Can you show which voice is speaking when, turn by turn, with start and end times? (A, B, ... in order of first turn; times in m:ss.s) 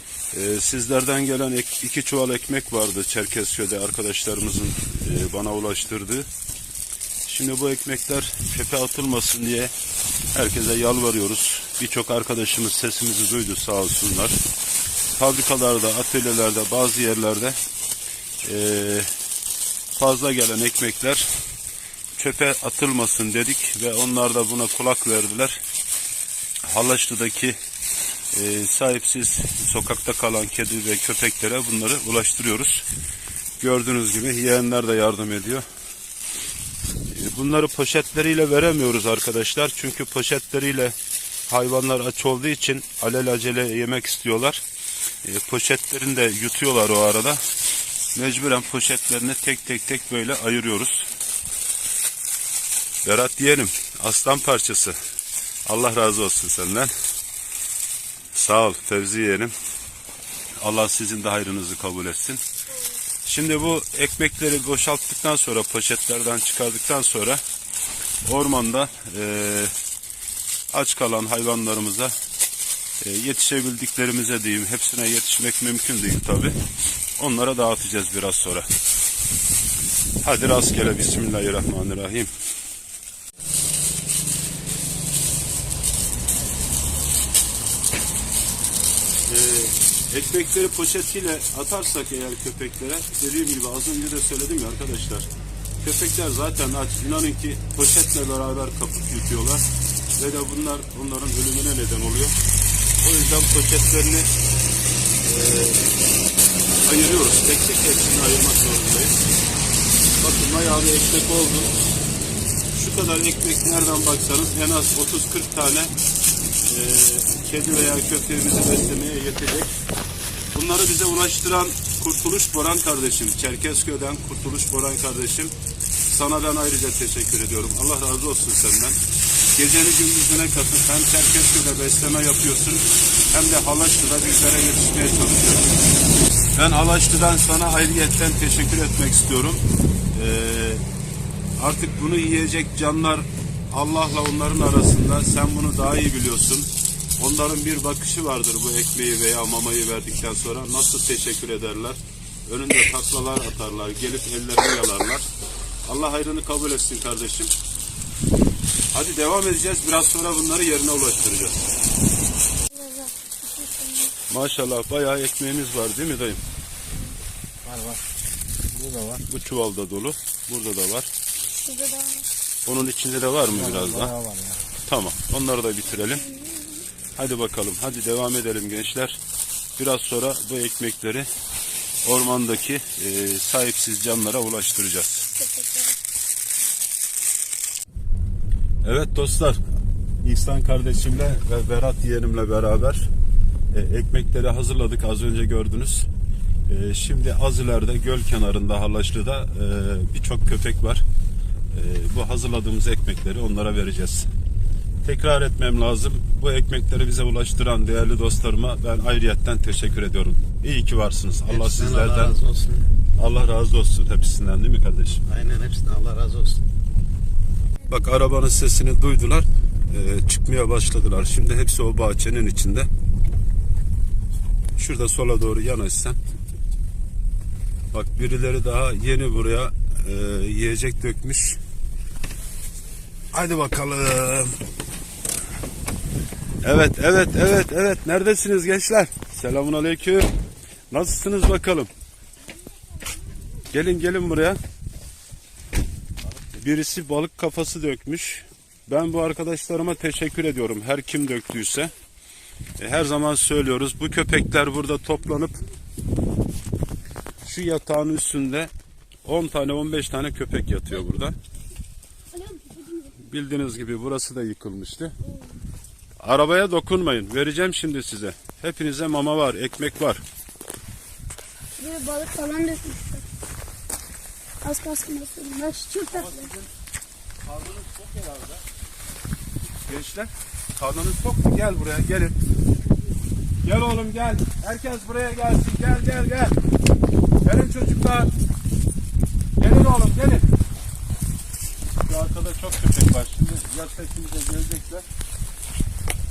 0:00.3-0:06.3 A
0:07.3-0:09.7 A
0:10.3-0:14.4 A
0:15.2-0:17.6 A
0:18.4-0:19.1 A
0:20.0-0:21.3 A
0:22.2-0:25.6 A
0:26.6-0:27.6 A
0:28.3-0:32.9 A
0:33.6-0:35.6 A
0:37.1-0:41.0 A
0:41.5-0:44.6 A
0:45.2-0:47.4 A
0:48.2-0:51.1 A
0:53.0-0:55.0 A
0:55.7-0:56.9 A
0:58.3-0:59.5 A
1:00.6-1:02.4 A
1:03.2-1:07.4 A
1:08.2-1:09.7 A
1:10.7-1:12.1 A
1:13.0-1:16.6 A
1:17.2-1:18.7 A
1:20.2-1:22.3 A
1:29.3-1:35.3 A
1:35.8-1:39.6 A
1:40.2-1:42.4 A
1:43.0-1:44.3 A
1:45.2-1:45.9 A
1:46.8-1:49.2 A
1:50.2-1:51.8 A
1:52.7-1:55.9 A
1:56.7-1:59.8 A
2:00.5-2:05.5 A
2:06.1-2:09.0 A
2:09.5-2:15.7 A
2:16.6-2:20.8 A
2:21.6-2:35.3 A
2:35.8-2:37.5 A
2:38.9-2:41.6 A
2:42.7-2:44.2 B
2:44.3-2:46.4 A
2:47.6-2:48.1 C
2:48.6-2:49.2 C
2:49.3-2:51.1 A
2:51.6-2:52.3 B
2:52.7-2:54.1 A
2:53.5-2:54.6 C
2:54.8-2:56.2 A
2:56.0-2:56.9 B
2:57.2-2:59.2 A
2:59.8-3:01.3 A
3:02.0-3:05.2 A
3:05.3-3:06.0 B
3:08.8-3:09.6 A
3:10.2-3:13.1 A
3:13.7-3:16.1 A
3:16.7-3:21.0 A
3:21.7-3:24.3 A
3:25.0-3:32.4 A
3:31.5-3:32.9 C
3:33.2-3:35.2 A
3:35.3-3:36.6 C
3:37.9-3:42.9 A
3:44.8-3:46.2 A
3:47.9-3:51.6 A
3:53.3-3:54.6 A
3:56.6-4:00.3 A
4:00.9-4:01.9 A
4:02.7-4:03.5 B
4:03.7-4:04.6 A
4:06.6-4:11.9 A
4:12.8-4:15.6 A
4:17.4-4:18.7 A
4:19.2-4:21.4 A
4:22.3-4:23.2 B
4:23.2-4:25.2 A
4:25.2-4:25.6 B
4:26.2-4:30.2 A
4:31.8-4:33.3 B
4:34.6-4:36.5 B
4:36.1-4:36.7 A
4:37.4-4:38.6 A
4:39.9-4:42.4 A
4:43.6-4:46.6 A
4:47.4-4:48.3 A
4:49.6-4:50.5 A
4:52.0-4:55.0 A